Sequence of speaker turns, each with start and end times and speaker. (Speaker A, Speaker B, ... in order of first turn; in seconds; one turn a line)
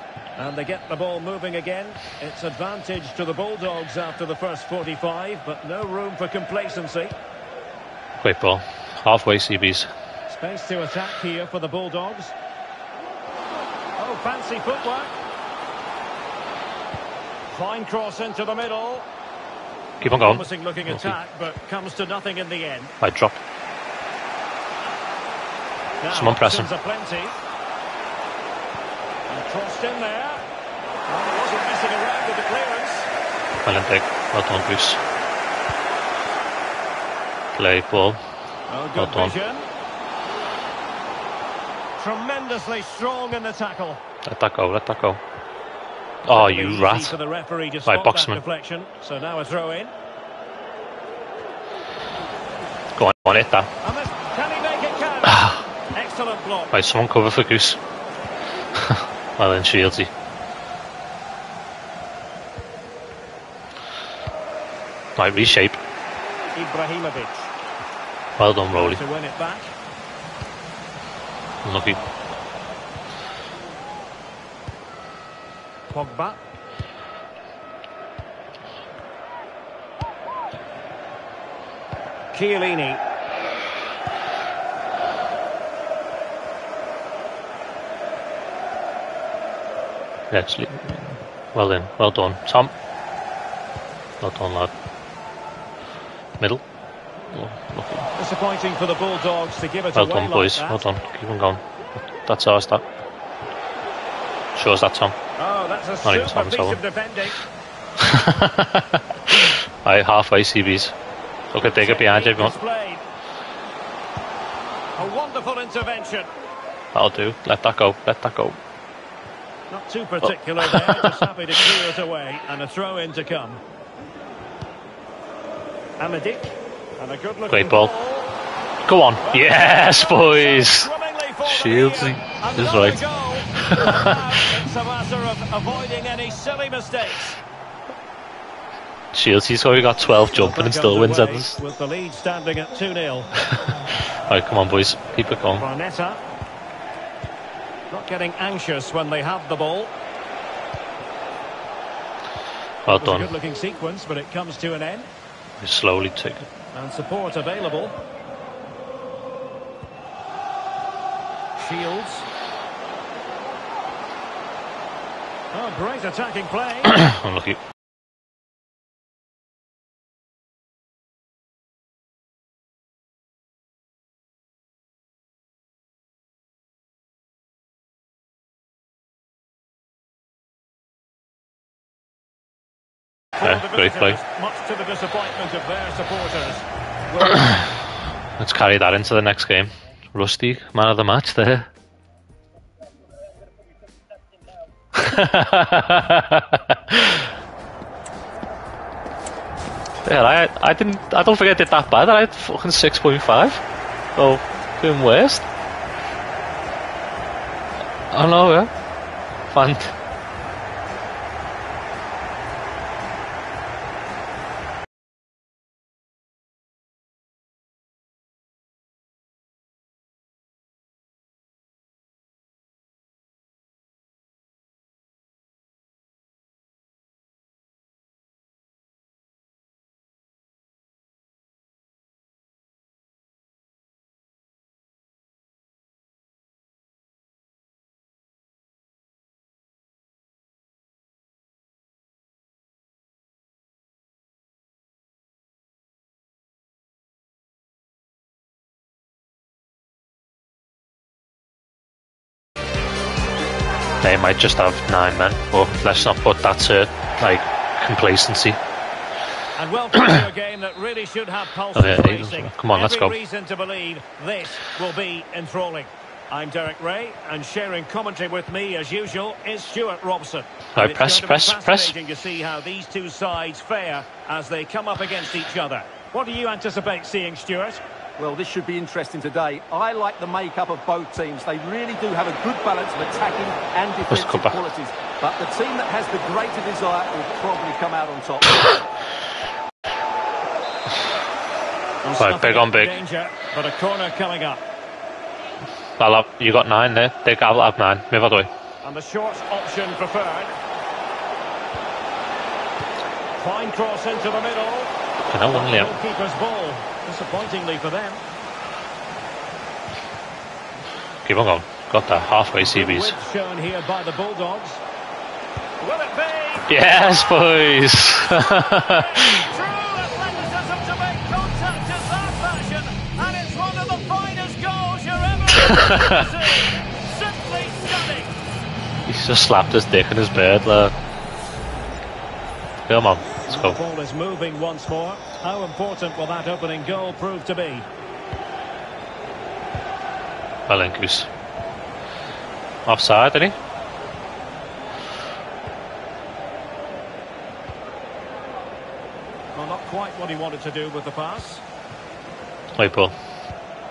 Speaker A: 0.4-7.2
Speaker B: 8.2-9.9
Speaker A: 10.3-12.3
Speaker A: 14.0-15.1
Speaker A: 17.5-19.1
Speaker B: 20.0-21.2
Speaker A: 20.2-22.9
Speaker B: 23.0-23.4
Speaker A: 26.0-27.4
Speaker B: 26.1-26.7
Speaker A: 29.3-30.4
Speaker A: 31.1-33.1
Speaker B: 33.6-35.0
Speaker B: 37.6-38.2
Speaker A: 38.7-39.7
Speaker B: 39.0-39.4
Speaker A: 42.0-44.0
Speaker B: 44.2-45.2
Speaker B: 46.2-47.2
Speaker A: 46.3-49.9
Speaker B: 47.9-48.4
Speaker B: 53.0-53.7
Speaker A: 53.8-56.7
Speaker B: 55.3-55.6
Speaker B: 56.7-57.8
Speaker B: 58.8-60.1
Speaker B: 65.2-65.8
Speaker A: 66.5-67.5
Speaker B: 68.4-69.0
Speaker A: 68.7-69.7
Speaker B: 71.7-72.0
Speaker A: 75.9-76.4
Speaker A: 82.3-83.0
Speaker B: 90.3-92.7
Speaker B: 94.2-94.7
Speaker B: 97.3-98.1
Speaker A: 98.2-100.9
Speaker B: 100.0-102.8
Speaker B: 104.5-105.2
Speaker A: 105.4-107.4
Speaker B: 106.0-106.8
Speaker B: 108.0-111.0
Speaker B: 111.5-112.6
Speaker A: 111.6-113.0
Speaker A: 115.0-116.3
Speaker B: 116.9-118.6
Speaker A: 119.7-123.6
Speaker B: 120.6-121.2
Speaker A: 126.0-128.4
Speaker B: 127.5-127.9
Speaker B: 128.8-130.9
Speaker A: 129.2-137.4
Speaker B: 131.4-133.0
Speaker B: 133.6-134.2
Speaker B: 139.1-141.6
Speaker A: 140.3-143.3
Speaker B: 144.3-145.7
Speaker A: 145.6-146.2
Speaker A: 147.9-149.9
Speaker B: 152.8-153.3
Speaker A: 152.9-155.1
Speaker B: 155.6-156.5
Speaker A: 156.7-158.0
Speaker A: 161.6-162.3
Speaker A: 165.5-167.0
Speaker B: 166.8-167.6
Speaker A: 183.4-187.5
Speaker B: 183.4-184.2
Speaker B: 188.4-191.7
Speaker B: 194.9-197.2
Speaker B: 200.1-203.6
Speaker B: 204.2-205.5
Speaker B: 208.1-208.7
Speaker B: 209.5-209.9
Speaker B: 254.0-258.6
Speaker A: 259.6-277.8
Speaker B: 261.8-263.1
Speaker B: 270.8-271.9
Speaker C: 278.2-288.6
Speaker B: 284.1-284.6
Speaker A: 292.0-294.6
Speaker B: 292.2-293.0
Speaker B: 296.0-298.5
Speaker A: 298.8-300.5
Speaker A: 303.4-304.9
Speaker B: 305.3-305.9
Speaker A: 305.5-308.2
Speaker B: 311.2-313.2
Speaker A: 312.6-314.8
Speaker A: 315.8-316.7
Speaker B: 316.7-319.4
Speaker A: 318.6-328.4
Speaker B: 325.6-326.3
Speaker B: 329.1-330.9
Speaker B: 332.9-333.8
Speaker A: 333.5-337.9
Speaker B: 340.7-341.3
Speaker B: 342.9-343.6
Speaker A: 349.5-351.6
Speaker B: 352.8-353.1